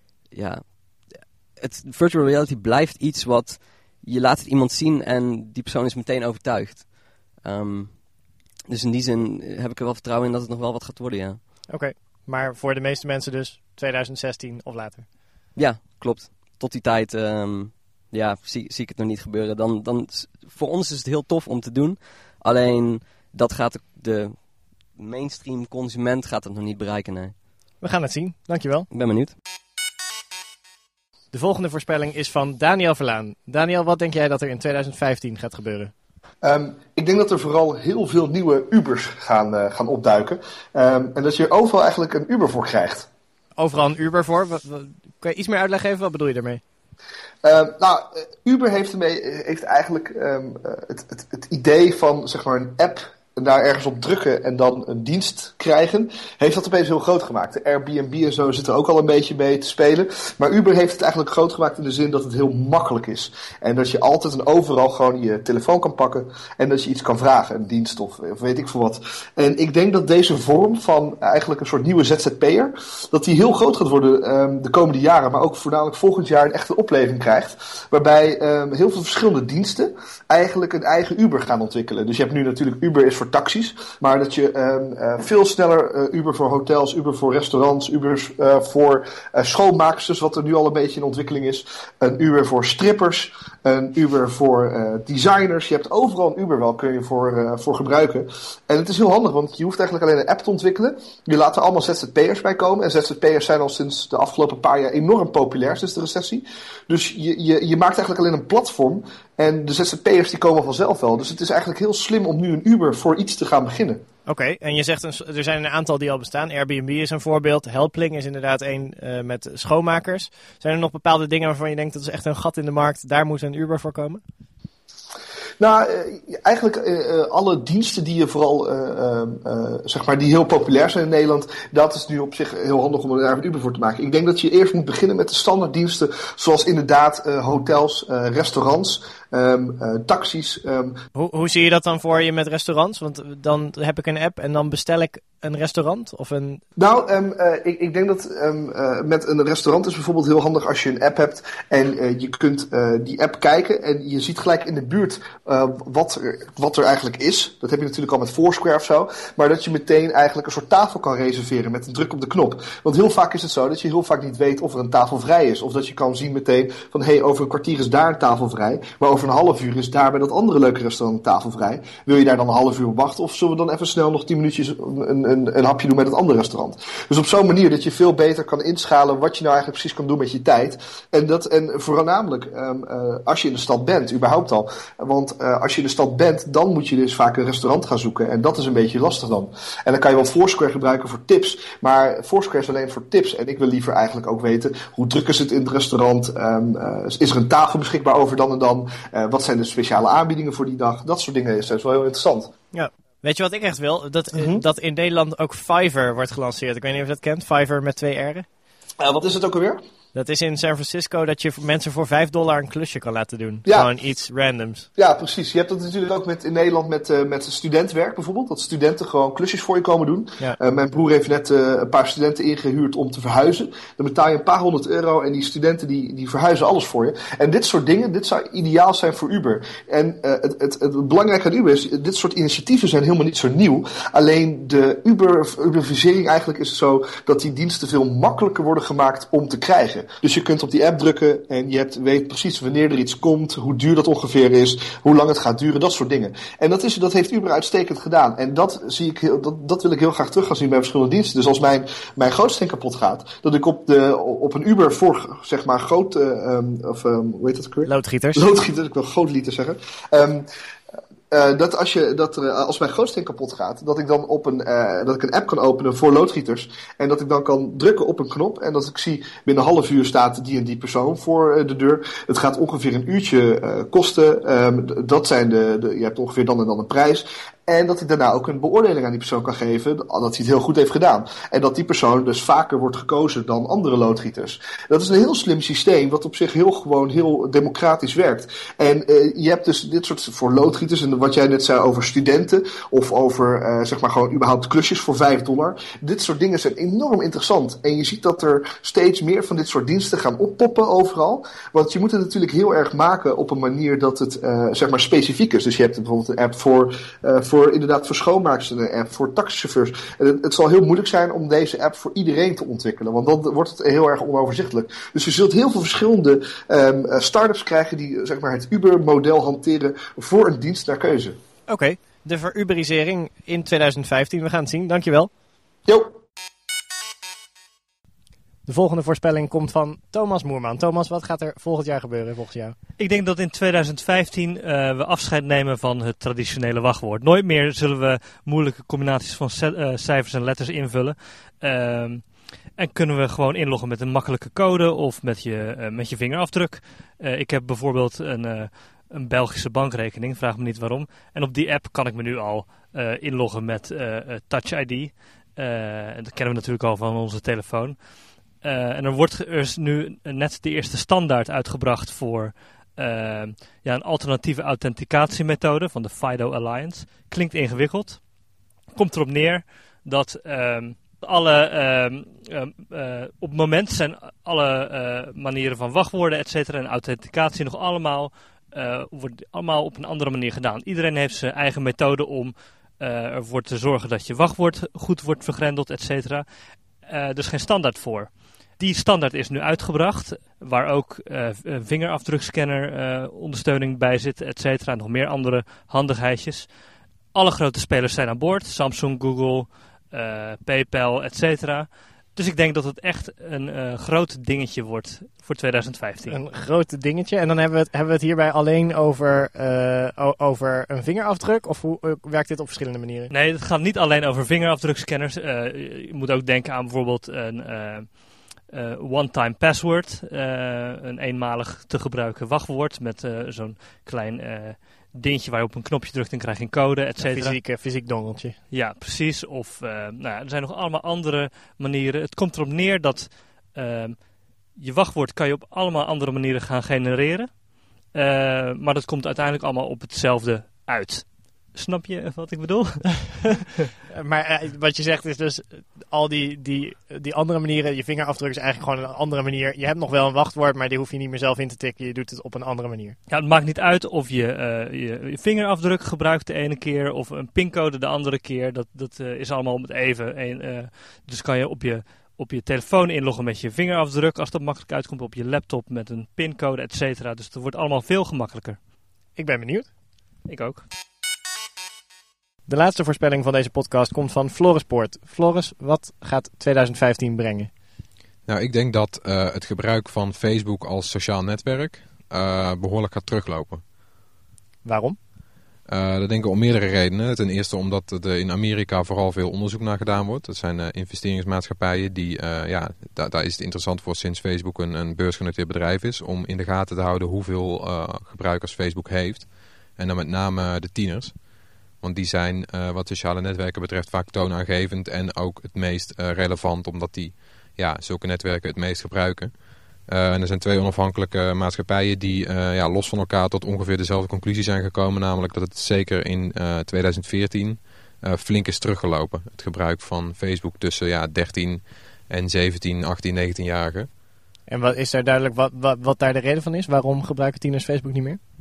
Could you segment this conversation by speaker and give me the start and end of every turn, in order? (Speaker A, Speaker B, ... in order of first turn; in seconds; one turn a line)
Speaker A: 0.3-8.0
Speaker A: 8.7-11.4
Speaker B: 11.7-15.1
Speaker A: 15.5-27.3
Speaker B: 27.8-28.9
Speaker A: 28.9-29.3
Speaker B: 31.3-35.9
Speaker C: 36.4-43.1
Speaker B: 43.6-46.6
Speaker C: 47.4-114.0
Speaker B: 114.3-124.2
Speaker C: 125.6-141.0
Speaker B: 141.2-146.6
Speaker C: 146.8-202.5
Speaker B: 202.7-208.5
Speaker C: 204.3-204.6
Speaker C: 209.0-209.8
Speaker B: 210.1-214.9
Speaker C: 213.7-213.9
Speaker C: 215.0-260.5
Speaker B: 257.8-258.5
Speaker C: 261.3-321.4
Speaker B: 321.7-325.3
Speaker C: 325.9-326.1
Speaker B: 328.7-332.8
Speaker D: 333.0-368.2
Speaker D: 368.9-386.4
Speaker D: 387.0-396.7
Speaker D: 397.3-406.4
Speaker B: 406.3-413.3
Speaker D: 413.3-427.6
Speaker B: 427.2-428.6
Speaker D: 428.7-443.7
Speaker B: 444.1-453.2
Speaker D: 453.3-468.8
Speaker B: 469.4-469.9
Speaker D: 470.4-470.8
Speaker B: 472.7-477.7
Speaker E: 478.4-483.8
Speaker B: 484.8-485.2
Speaker E: 485.9-501.4
Speaker E: 502.0-509.5
Speaker E: 510.0-524.1
Speaker B: 524.7-528.4